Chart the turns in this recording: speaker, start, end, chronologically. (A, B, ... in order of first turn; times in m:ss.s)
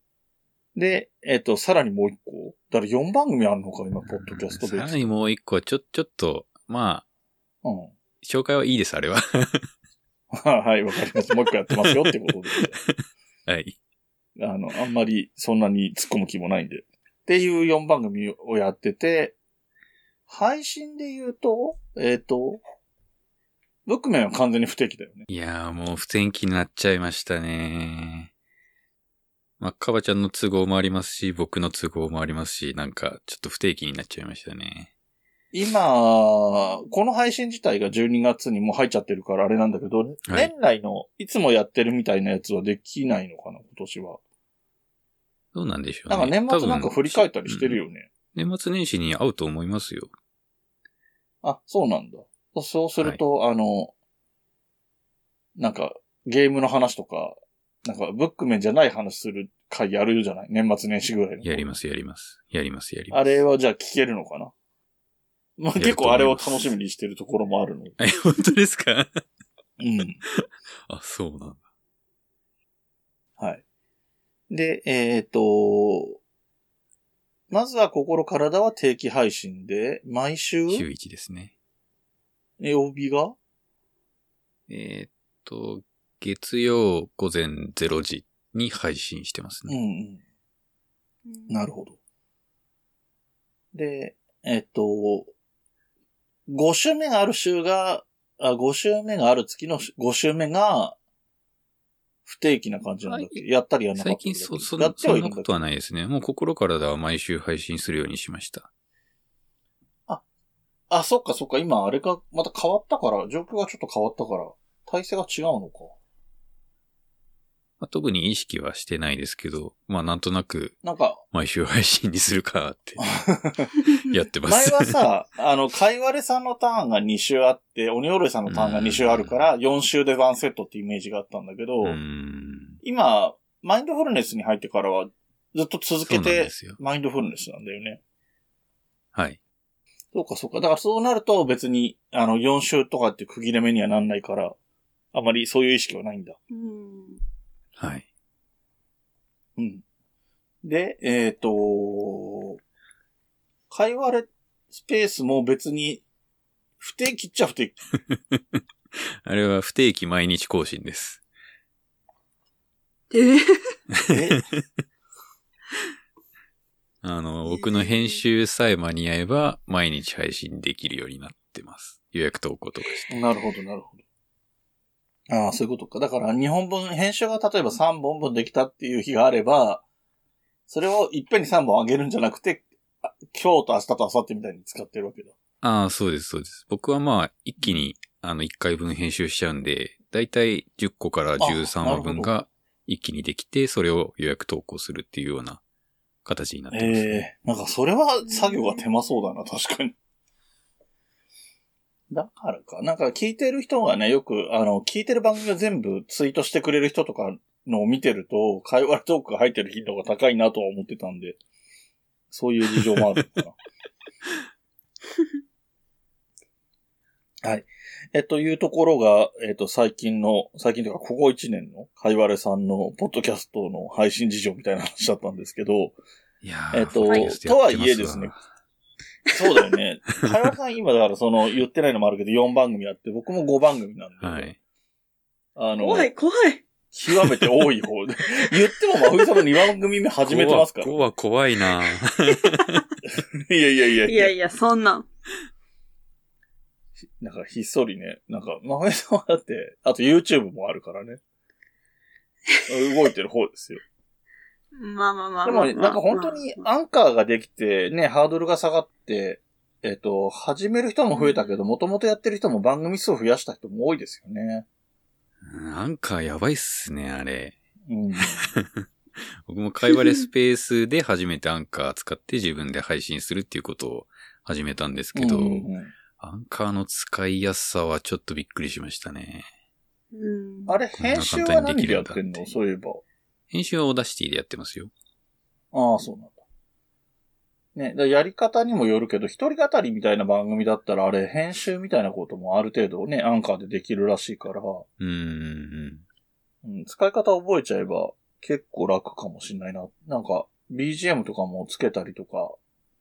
0:00.7-0:05.0 A
0:04.1-0:07.0 B
0:07.6-0:07.9 A
0:08.2-0:09.7 B
0:10.3-0:12.8 A
0:11.7-0:13.8 B
0:14.4-0:19.4 A
0:20.3-0:22.6 A
0:23.8-0:25.3 A
0:25.3-0:28.3 B
0:29.6-0:34.9 B
0:35.5-0:44.2 A
0:45.5-0:47.8 B
0:46.1-0:48.1 A
0:48.3-0:50.1 B
0:51.4-0:53.9 A
0:55.6-1:01.6 A
1:01.4-1:03.4 B
1:03.1-1:04.5 A
1:05.6-1:08.0 A
1:05.8-1:06.7 B
1:08.0-1:09.2 B
1:09.8-1:10.2 A
1:10.3-1:11.6 B
1:14.5-1:16.2 A
1:17.5-1:20.8 A
1:20.7-1:21.5 B
1:22.6-1:23.4 A
1:24.7-1:29.7 B
1:29.7-1:30.2 A
1:31.3-1:31.6 C
1:31.5-1:32.0 A
1:33.7-1:35.3 A
1:36.5-1:41.0 A
1:42.2-1:45.5 A
1:43.1-1:43.4 B
1:44.0-1:48.7 B
1:50.9-1:55.9 A
1:57.8-2:00.8 B
2:00.8-2:01.2 A
2:01.3-2:03.0 B
2:03.0-2:03.8 A
2:03.9-2:05.0 B
2:04.5-2:12.0 A
2:08.5-2:09.5 B
2:11.8-2:12.8 B
2:12.8-2:18.0 A
2:16.0-2:16.8 B
2:19.1-2:19.4 B
2:20.1-2:24.5 A
2:25.1-2:26.4 A
2:26.5-2:27.2 C
2:27.8-2:28.0 B
2:29.6-2:29.8 A
2:30.6-2:32.6 A
2:33.7-2:36.0 A
2:36.8-2:37.8 A
2:38.1-2:41.2 B
2:43.1-2:43.8 C
2:43.9-2:44.6 B
2:44.1-2:44.4 A
2:47.0-2:53.1 B
2:47.4-2:48.2 C
2:53.1-2:54.0 A
2:55.3-2:59.8 A
3:00.7-3:05.3 A
3:05.6-3:15.6 B
3:11.4-3:12.3 A
3:16.2-3:17.2 B
3:16.7-3:19.9 A
3:18.3-3:18.8 C
3:22.1-3:31.4 A
3:32.3-3:33.5 A
3:37.4-3:46.0 A
3:46.4-3:48.4 B
3:46.7-3:48.3 A
3:49.3-3:54.5 A
3:54.2-3:54.6 B
3:55.6-3:56.1 A
3:55.8-3:56.6 C
3:56.9-4:01.0 A
3:59.1-3:59.4 C
4:00.2-4:02.8 B
4:03.0-4:04.3 A
4:04.0-4:05.0 C
4:07.2-4:11.2 A
4:12.7-4:13.8 A
4:14.7-4:16.6 C
4:15.4-4:24.6 A
4:21.2-4:21.6 C
4:25.4-4:27.6 B
4:27.9-4:28.5 A
4:28.4-4:28.9 B
4:29.4-4:39.5 B
4:29.9-4:30.2 C
4:35.1-4:35.9 A
4:40.1-4:40.7 C
4:40.7-4:43.0 A
4:41.0-4:42.5 B
4:43.5-4:44.9 B
4:45.7-4:46.4 A
4:47.8-4:54.8 A
4:55.0-4:56.0 B
4:56.6-5:02.6 A